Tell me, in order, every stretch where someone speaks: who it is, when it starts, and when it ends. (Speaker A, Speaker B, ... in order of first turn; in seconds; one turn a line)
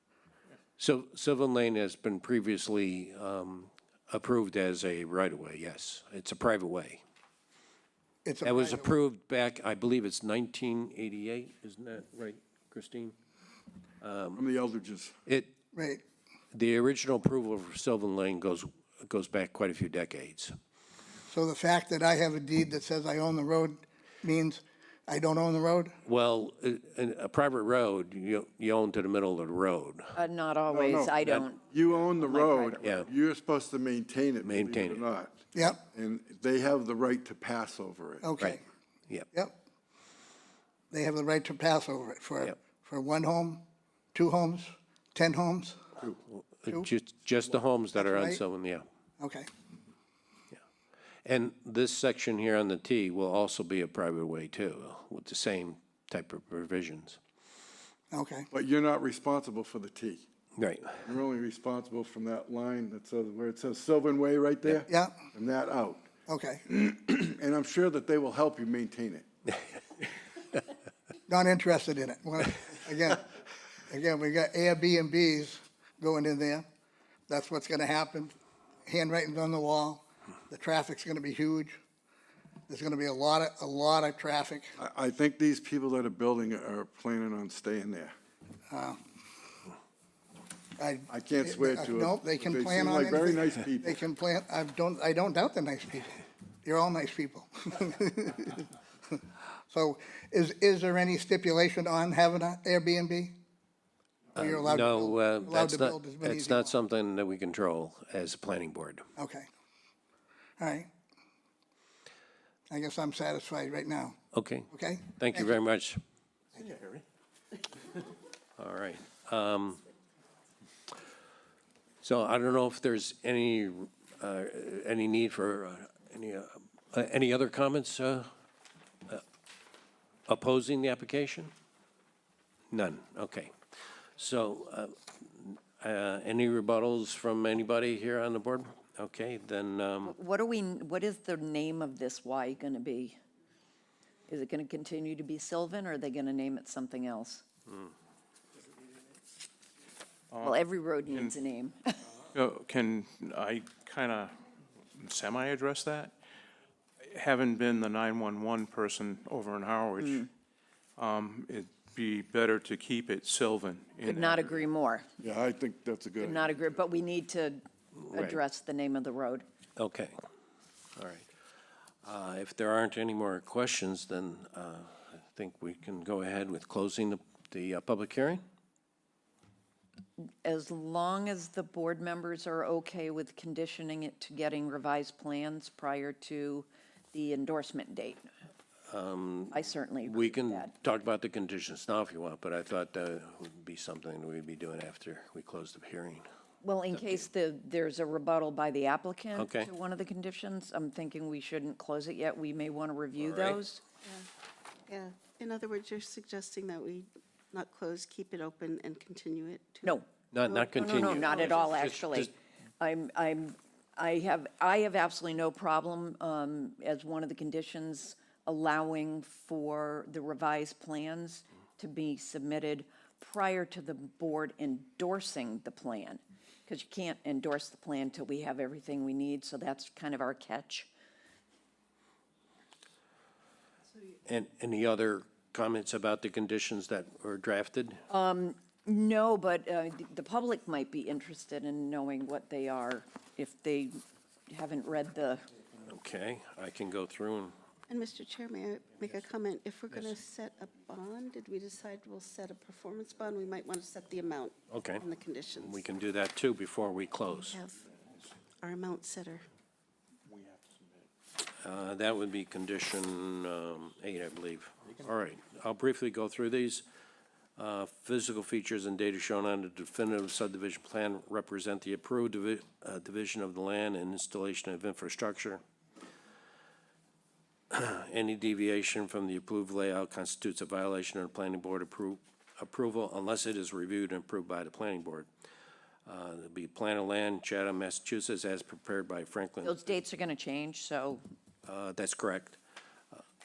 Speaker A: 0.8-7.0
Speaker B: 8.2-8.9
Speaker A: 8.4-13.1
Speaker A: 14.0-14.4
Speaker C: 14.3-15.1
Speaker A: 15.3-15.5
Speaker B: 15.7-16.0
Speaker A: 16.5-20.5
Speaker B: 21.3-25.9
Speaker A: 26.1-30.2
Speaker D: 30.1-33.1
Speaker C: 30.7-38.3
Speaker A: 31.2-31.5
Speaker A: 34.4-35.0
Speaker B: 35.5-35.8
Speaker B: 38.2-38.6
Speaker B: 40.9-43.6
Speaker B: 44.1-45.8
Speaker A: 46.4-48.8
Speaker B: 48.0-48.4
Speaker B: 49.2-49.5
Speaker A: 51.2-57.2
Speaker B: 58.1-58.5
Speaker C: 58.5-60.2
Speaker A: 60.6-61.0
Speaker C: 61.0-66.1
Speaker B: 64.9-65.2
Speaker B: 66.3-66.6
Speaker C: 66.7-69.3
Speaker B: 71.3-73.2
Speaker B: 73.9-76.7
Speaker B: 77.3-78.3
Speaker B: 78.9-81.8
Speaker B: 82.7-84.7
Speaker C: 84.8-88.1
Speaker B: 88.7-89.0
Speaker B: 90.8-103.3
Speaker C: 91.1-94.0
Speaker A: 104.3-109.0
Speaker B: 104.4-106.7
Speaker B: 109.2-109.5
Speaker B: 110.6-110.9
Speaker B: 112.7-114.2
Speaker A: 114.3-116.0
Speaker B: 114.7-115.5
Speaker E: 116.6-116.9
Speaker A: 118.6-119.8
Speaker A: 122.0-128.3
Speaker A: 130.3-131.5
Speaker A: 132.7-133.5
Speaker A: 134.2-140.1
Speaker D: 140.0-143.2
Speaker D: 144.3-147.4
Speaker E: 150.3-151.3
Speaker D: 150.4-152.1
Speaker E: 152.3-154.4
Speaker E: 155.0-156.1
Speaker E: 157.0-160.3
Speaker D: 160.0-160.3
Speaker E: 161.0-164.6
Speaker D: 164.0-165.1
Speaker C: 165.2-166.8
Speaker D: 166.2-169.4
Speaker A: 168.0-168.4
Speaker A: 169.8-170.1
Speaker A: 171.0-171.3
Speaker A: 172.0-178.4
Speaker D: 180.4-188.3
Speaker A: 188.9-196.3
Speaker D: 189.5-190.7
Speaker D: 196.6-203.8
Speaker A: 196.9-197.3
Speaker A: 199.4-199.7
Speaker A: 203.2-203.6
Speaker F: 204.9-210.0
Speaker D: 209.8-230.9
Speaker A: 210.3-212.3
Speaker F: 211.2-211.7
Speaker A: 234.3-238.0
Speaker D: 238.1-245.5
Speaker A: 245.9-247.5
Speaker F: 247.9-255.8
Speaker A: 254.7-255.1
Speaker A: 255.6-257.6
Speaker F: 257.5-257.8
Speaker F: 258.6-259.5
Speaker E: 260.3-260.7
Speaker A: 261.6-266.8
Speaker A: 267.6-275.6
Speaker A: 277.7-285.3
Speaker A: 286.1-289.8
Speaker D: 289.6-291.2
Speaker A: 291.6-292.6